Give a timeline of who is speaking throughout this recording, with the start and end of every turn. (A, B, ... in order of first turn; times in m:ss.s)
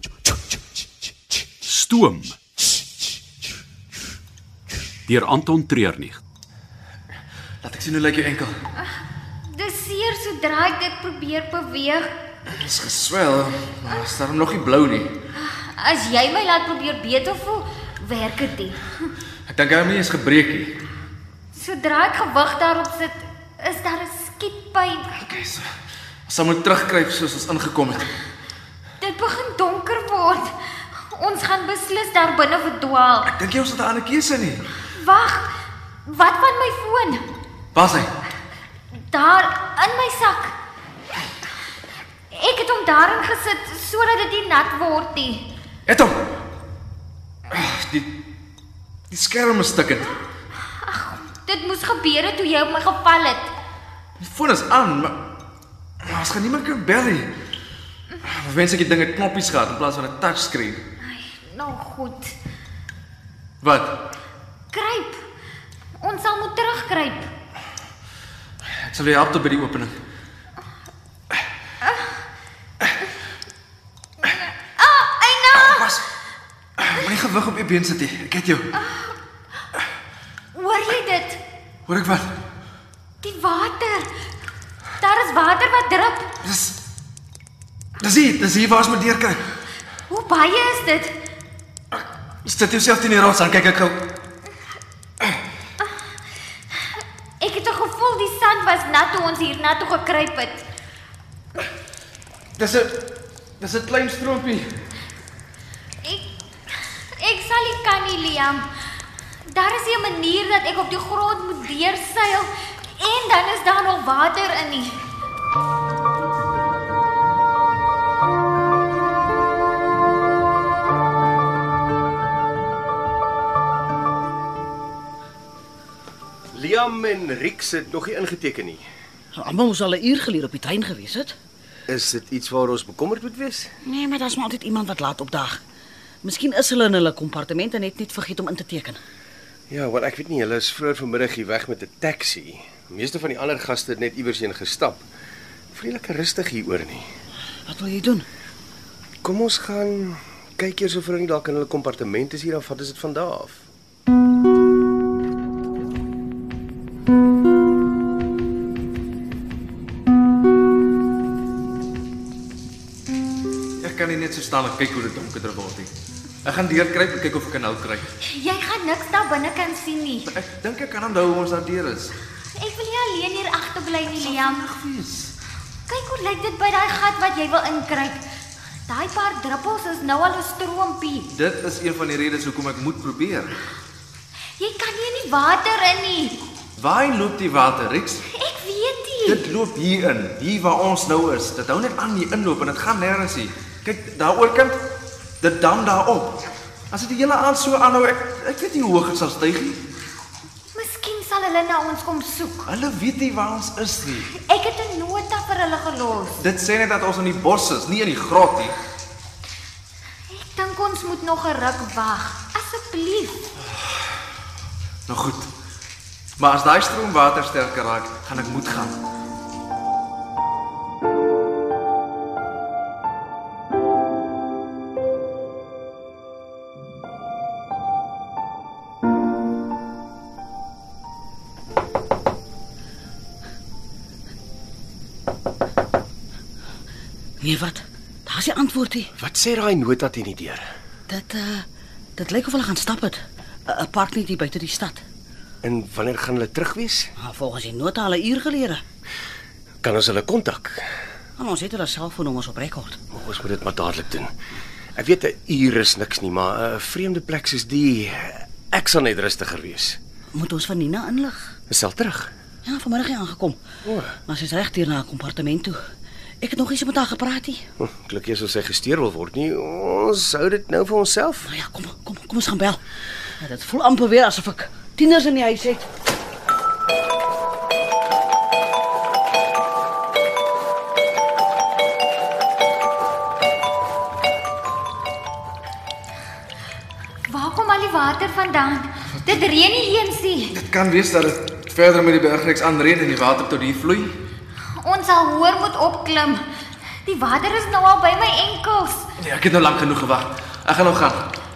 0:01.6-0:02.4 A
0:05.1-0:06.2 A
0:07.6-0:08.5 B
0:08.8-0:12.1 C
0:12.5-0:15.1 B
0:15.4-0:18.8 C
0:19.5-0:20.7 B
0:21.5-0:25.2 C
0:25.2-0:25.6 B
0:26.3-0:28.1 B
0:29.0-0:30.5 C
0:31.1-0:33.3 C
0:33.3-0:34.6 B
0:34.9-0:35.5 C
0:36.1-0:37.2 C
0:37.7-0:38.1 B
0:39.1-0:40.6 C
0:42.3-0:45.5 C
0:45.9-0:46.2 B
0:47.5-0:48.1 B
0:49.1-0:50.1 B
0:50.7-0:53.5 C
0:54.2-0:55.2 B
0:56.0-0:57.3 B
0:58.2-1:00.8 B
1:01.0-1:02.4 C
1:03.6-1:04.0 B
1:04.7-1:05.2 C
1:06.0-1:07.3 C
1:08.8-1:10.0 B
1:14.2-1:15.9 C
1:15.6-1:16.0 B
1:16.8-1:18.7 B
1:18.7-1:19.2 C
1:20.5-1:21.4 C
1:21.9-1:22.3 B
1:23.2-1:24.1 C
1:25.0-1:26.3 C
1:26.4-1:26.8 B
1:28.0-1:29.4 B
1:30.1-1:31.2 C
1:31.9-1:34.1 B
1:37.4-1:40.7 C
1:42.6-1:43.0 B
1:43.6-1:44.7 B
1:46.0-1:46.3 C
1:47.2-1:48.7 C
1:49.5-1:55.0 C
2:06.5-2:08.8 D
2:09.4-2:11.4 E
2:11.9-2:13.7 D
2:13.8-2:15.6 E
2:16.2-2:19.0 E
2:19.7-2:25.0 D
2:25.7-2:27.1 D
2:27.7-2:28.2 E
2:29.2-2:33.6 D
2:43.8-2:45.9 B
2:46.4-2:48.1 B
2:48.2-2:50.3 C
2:50.3-2:52.1 B
2:52.6-2:54.7 C
2:54.3-2:55.3 B
2:55.9-2:58.2 C
2:58.9-3:01.3 C
3:01.3-3:03.6 B
3:04.6-3:06.4 C
3:06.8-3:08.2 B
3:08.3-3:09.4 C
3:09.2-3:14.8 B
3:15.4-3:19.8 B
3:20.7-3:22.7 C
3:22.7-3:24.3 B
3:24.4-3:26.4 C
3:26.4-3:28.8 B
3:30.3-3:33.4 C
3:35.1-3:35.5 B
3:36.4-3:39.0 B
3:57.4-3:59.1 E
3:59.2-4:00.7 D
4:01.1-4:01.7 E
4:02.2-4:05.0 E
4:05.6-4:07.1 D
4:07.2-4:08.8 E
4:09.8-4:10.8 D
4:11.4-4:13.0 E
4:13.1-4:14.3 D
4:15.0-4:20.0 D
4:20.4-4:21.5 E
4:21.7-4:22.3 D
4:22.7-4:23.6 E
4:23.8-4:24.1 D
4:24.3-4:25.8 E
4:26.4-4:27.6 E
4:27.8-4:31.5 D
4:31.5-4:32.8 E
4:33.4-4:35.9 E
4:47.3-4:50.6 C
4:50.5-4:54.2 B
4:54.8-4:56.4 C
4:57.0-4:59.1 C
4:59.2-5:01.2 B